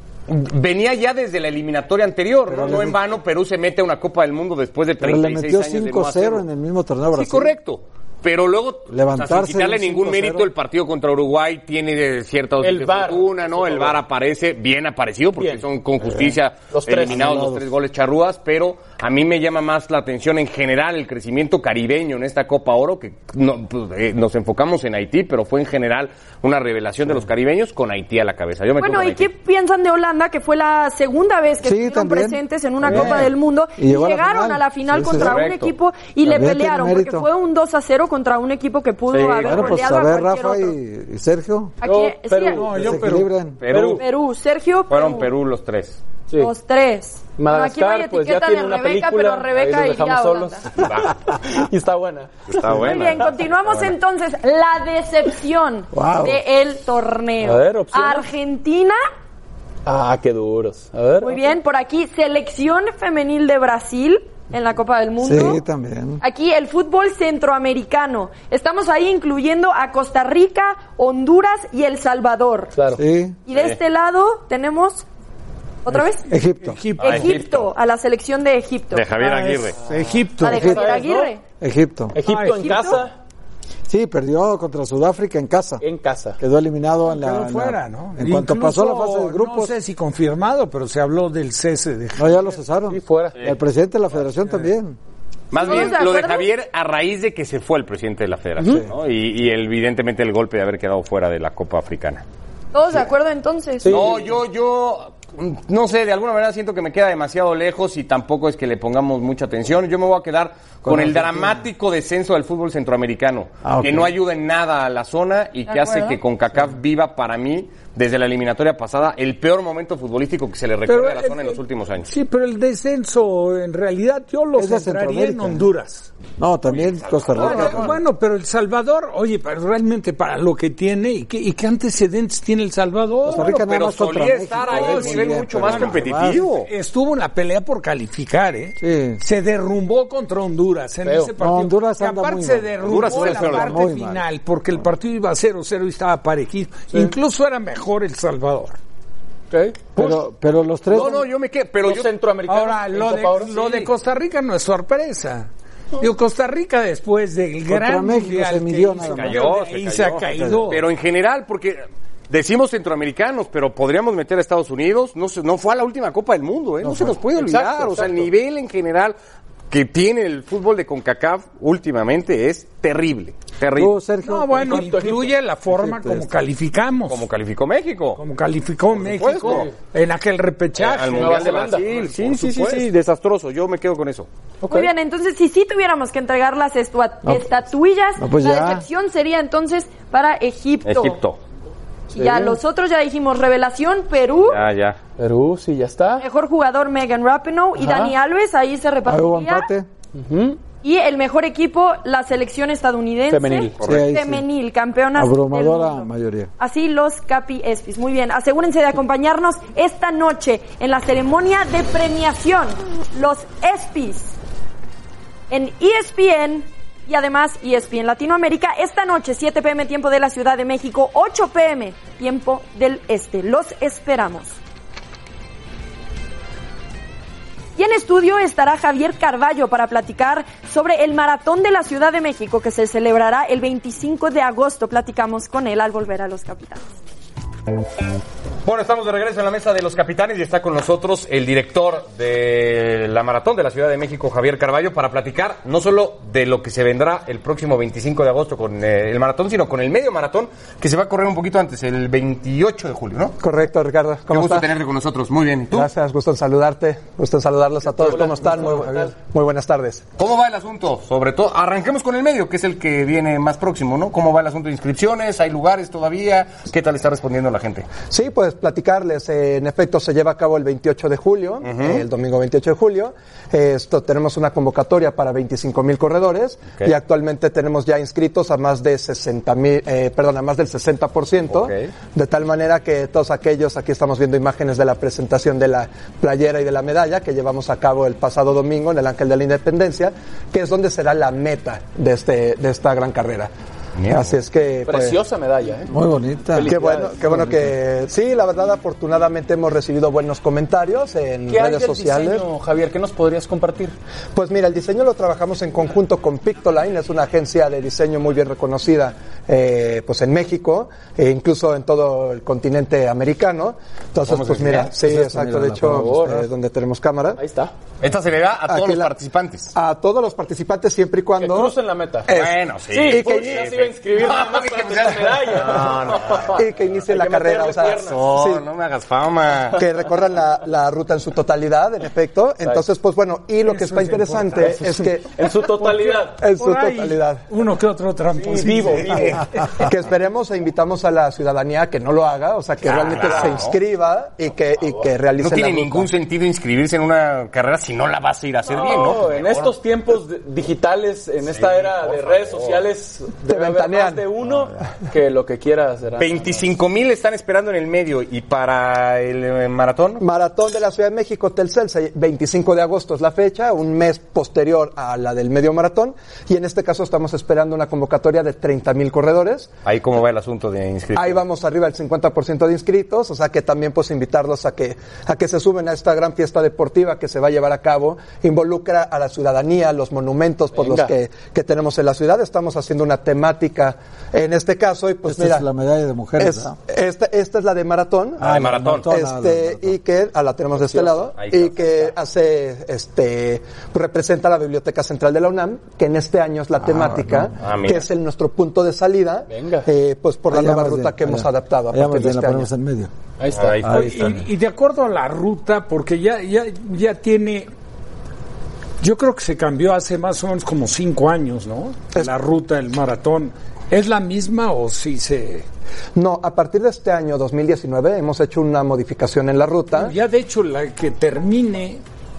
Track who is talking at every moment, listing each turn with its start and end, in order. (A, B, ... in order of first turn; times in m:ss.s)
0:00.3-0:06.4 A
0:02.5-0:03.0 B
0:05.0-0:07.6 B
0:07.1-0:29.3 A
0:08.9-0:10.5 B
0:12.6-0:14.0 C
0:15.4-0:15.6 C
0:16.0-0:16.4 B
0:16.7-0:17.5 C
0:17.0-0:17.7 B
0:28.8-0:40.8 D
0:31.6-0:35.4 B
0:35.0-0:35.7 A
0:36.2-0:37.3 B
0:39.1-0:39.9 A
0:39.4-0:41.8 B
0:41.8-0:42.8 D
0:41.8-0:44.0 C
0:42.6-0:43.3 E
0:42.7-0:43.7 B
0:43.6-0:44.0 A
0:44.0-0:45.3 D
0:44.9-0:46.0 A
0:46.3-0:50.7 D
0:47.4-0:50.8 C
0:50.8-0:51.2 A
0:51.5-0:53.0 C
0:52.5-0:54.0 A
0:52.8-0:59.0 D
0:55.9-0:56.4 B
0:57.4-0:58.3 C
0:59.8-1:01.4 C
1:01.2-1:05.6 D
1:05.2-1:06.2 B
1:06.2-1:12.8 D
1:12.8-1:13.0 C
1:13.0-1:13.4 B
1:13.5-1:15.0 D
1:13.5-1:13.8 A
1:15.8-1:16.3 D
1:16.3-1:16.8 B
1:16.6-1:17.4 E
1:17.0-1:17.7 A
1:17.0-1:19.1 D
1:18.9-1:19.8 A
1:19.2-1:20.8 E
1:19.9-1:21.3 C
1:20.4-1:21.4 D
1:20.4-1:21.0 B
1:21.6-1:22.2 B
1:22.1-1:23.2 C
1:22.2-1:23.0 E
1:23.9-1:25.8 B
1:25.8-1:26.4 C
1:26.4-1:29.8 B
1:27.1-1:32.6 E
1:32.2-1:35.0 B
1:32.9-1:33.4 C
1:35.5-1:42.2 A
1:35.6-1:36.5 D
1:38.6-1:38.9 C
1:42.7-1:44.0 D
1:43.8-1:44.3 C
1:43.9-2:02.1 A
1:50.8-1:51.6 B
1:53.6-1:54.1 B
1:55.7-1:56.2 D
2:00.9-2:06.1 E
2:04.6-2:05.7 B
2:06.4-2:08.0 B
2:06.7-2:08.0 A
2:07.4-2:13.6 E
2:13.2-2:16.5 B
2:13.3-2:16.7 A
2:14.6-2:16.1 E
2:16.7-2:28.8 E
2:18.8-2:19.2 B
2:21.0-2:21.3 C
2:21.4-2:24.2 B
2:22.8-2:23.8 A
2:29.5-2:30.2 C
2:30.0-2:31.3 B
2:30.9-2:32.1 A
2:31.8-2:33.9 C
2:32.5-2:40.8 E
2:37.7-2:39.6 B
2:39.0-2:49.2 A
2:40.3-2:40.7 B
2:46.8-2:47.2 B
2:47.3-2:48.3 C
2:49.7-2:54.0 A
2:53.8-2:55.1 B
2:54.2-2:57.2 E
2:54.5-2:55.3 C
2:55.7-2:56.4 B
2:57.1-2:58.2 A
2:58.2-3:01.6 E
2:58.9-2:59.7 A
3:00.8-3:04.3 A
3:01.1-3:02.8 C
3:04.6-3:04.9 C
3:04.7-3:11.2 D
3:07.2-3:07.5 B
3:08.2-3:08.9 B
3:10.8-3:11.4 A
3:12.1-3:14.6 D
3:12.2-3:12.6 C
3:14.4-3:15.0 A
3:15.2-3:16.2 C
3:16.2-3:19.7 D
3:17.8-3:18.2 C
3:19.1-3:19.9 B
3:20.1-3:20.6 C
3:20.8-3:34.3 D
3:23.3-3:23.8 C
3:23.8-3:24.4 B
3:25.2-3:26.5 B
3:35.5-3:44.6 D
3:47.8-3:56.8 D
3:58.6-4:13.4 A
4:13.4-4:14.7 F
4:14.3-4:15.9 A
4:15.7-4:20.1 F
4:17.9-4:19.1 C
4:20.2-4:28.0 A
4:28.0-4:53.5 F
4:31.6-4:32.0 A
4:41.5-4:41.9 A
4:54.0-4:54.3 A
4:54.1-4:55.2 F
4:54.9-4:55.9 C
4:55.9-4:56.8 B
4:56.5-4:57.5 C
4:56.6-5:02.5 F
5:01.5-5:04.0 C
5:04.4-5:17.4 F
5:14.3-5:14.9 A
5:15.0-5:16.5 B
5:15.9-5:16.4 C
5:17.4-5:17.7 C
5:18.0-5:19.7 A
5:18.7-5:19.2 F
5:19.7-5:23.7 F
5:21.4-5:22.3 C
5:22.3-5:26.6 A
5:22.9-5:28.2 C
5:26.5-5:28.7 F
5:27.9-5:29.8 A
5:29.8-5:35.4 F
5:33.6-5:35.1 E
5:34.6-5:36.4 C
5:35.8-5:39.7 E
5:36.4-5:37.5 F
5:38.4-5:39.4 C
5:39.7-5:46.1 F
5:42.9-5:43.8 A
5:42.9-5:43.5 C
5:45.4-5:49.8 A
5:48.7-5:56.7 C
5:51.4-5:52.9 A
5:53.4-5:54.3 F
5:56.2-6:00.2 A
6:00.2-6:09.7 F
6:09.8-6:11.4 A
6:11.1-6:25.7 F
6:20.7-6:21.1 C
6:25.3-6:26.8 B
6:26.4-6:28.5 F
6:28.4-6:30.0 B
6:28.4-6:29.1 A
6:29.0-6:42.7 F
6:30.8-6:31.2 C
6:31.3-6:32.1 A
6:36.8-6:37.5 B
6:37.6-6:38.1 A
6:39.5-6:39.9 C
6:40.5-6:43.1 B
6:43.4-6:43.8 C
6:43.5-6:44.4 A
6:43.8-6:44.4 B
6:43.9-6:47.7 E
6:49.0-6:55.7 E
6:56.2-7:00.2 F
6:59.9-7:02.0 E